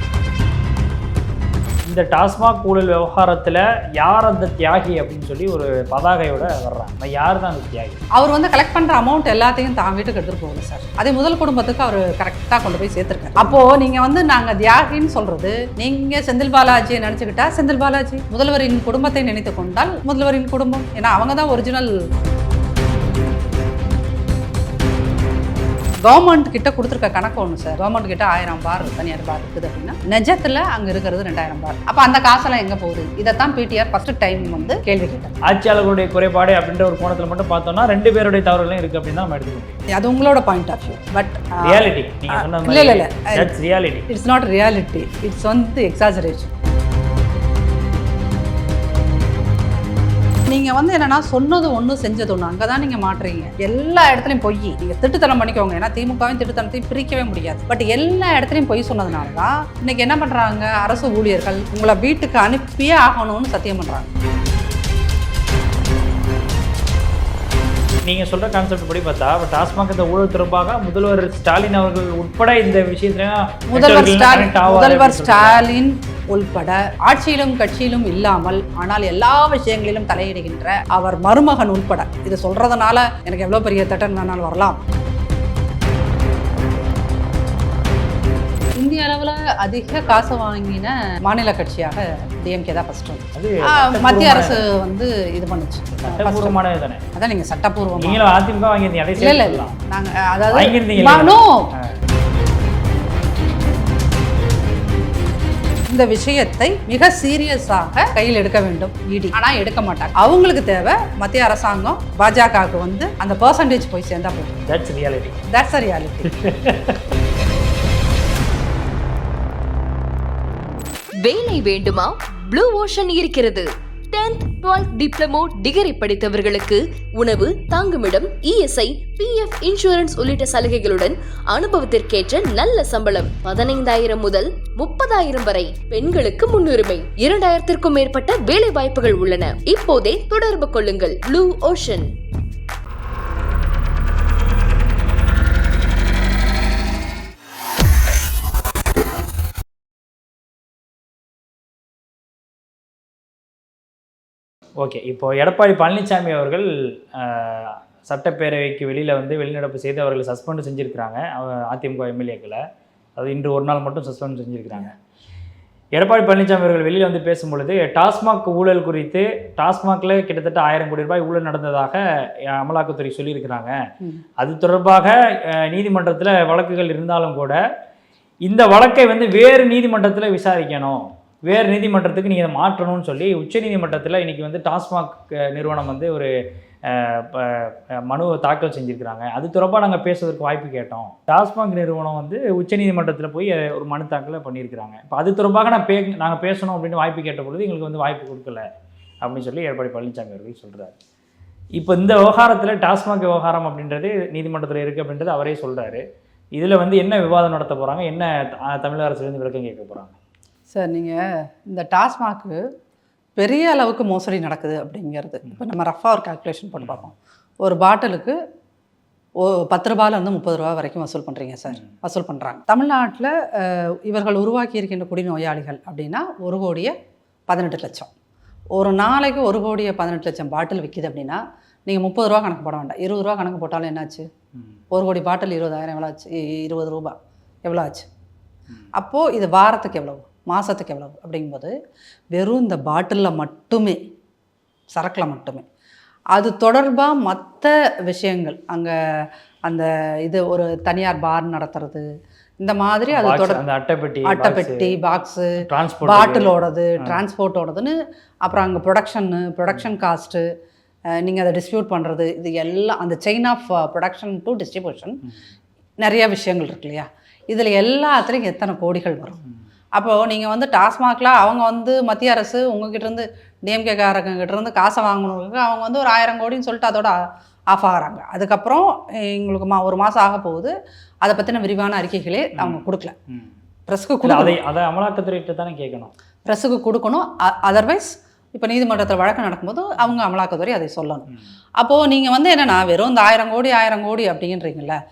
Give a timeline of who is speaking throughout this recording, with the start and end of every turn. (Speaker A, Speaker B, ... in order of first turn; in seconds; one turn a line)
Speaker A: 1.8-8.0
Speaker B: 8.1-21.9
Speaker B: 26.0-35.4
Speaker A: 34.4-34.8
Speaker A: 35.4-39.8
Speaker B: 39.9-43.5
Speaker A: 41.6-44.1
Speaker B: 44.1-46.5
Speaker B: 50.5-64.1
Speaker A: 68.0-75.7
Speaker B: 73.7-84.8
Speaker B: 88.7-96.6
Speaker A: 93.3-94.7
Speaker A: 96.0-97.0
Speaker B: 97.1-98.2
Speaker A: 98.0-99.8
Speaker B: 99.2-101.7
Speaker A: 100.5-101.9
Speaker B: 105.9-114.6
Speaker A: 114.7-115.4
Speaker B: 115.5-116.4
Speaker A: 116.2-117.0
Speaker C: 121.2-142.1
Speaker A: 154.8-162.6
Speaker A: 163.2-164.9
Speaker A: 165.9-173.8
Speaker A: 174.4-177.6
Speaker A: 178.4-186.3
Speaker A: 186.9-198.6
Speaker A: 199.2-200.9
Speaker A: 201.8-206.0
Speaker A: 206.6-210.1
Speaker B: 210.7-212.6
Speaker B: 213.4-218.3
Speaker B: 219.4-226.9
Speaker B: 227.5-228.1
Speaker B: 228.7-234.2
Speaker B: 234.9-238.1
Speaker B: 238.9-241.7
Speaker B: 242.3-244.0
Speaker B: 244.9-245.6
Speaker B: 246.3-248.9
Speaker B: 249.7-252.1
Speaker B: 252.6-253.6
Speaker A: 253.1-254.9
Speaker B: 254.2-255.5
Speaker A: 255.6-257.2
Speaker B: 256.0-260.4
Speaker B: 261.2-265.2
Speaker B: 266.0-269.4
Speaker B: 269.9-277.1
Speaker B: 277.7-283.1
Speaker A: 282.6-283.5
Speaker B: 283.9-284.6
Speaker A: 284.2-286.1
Speaker B: 286.5-291.3
Speaker B: 291.8-295.0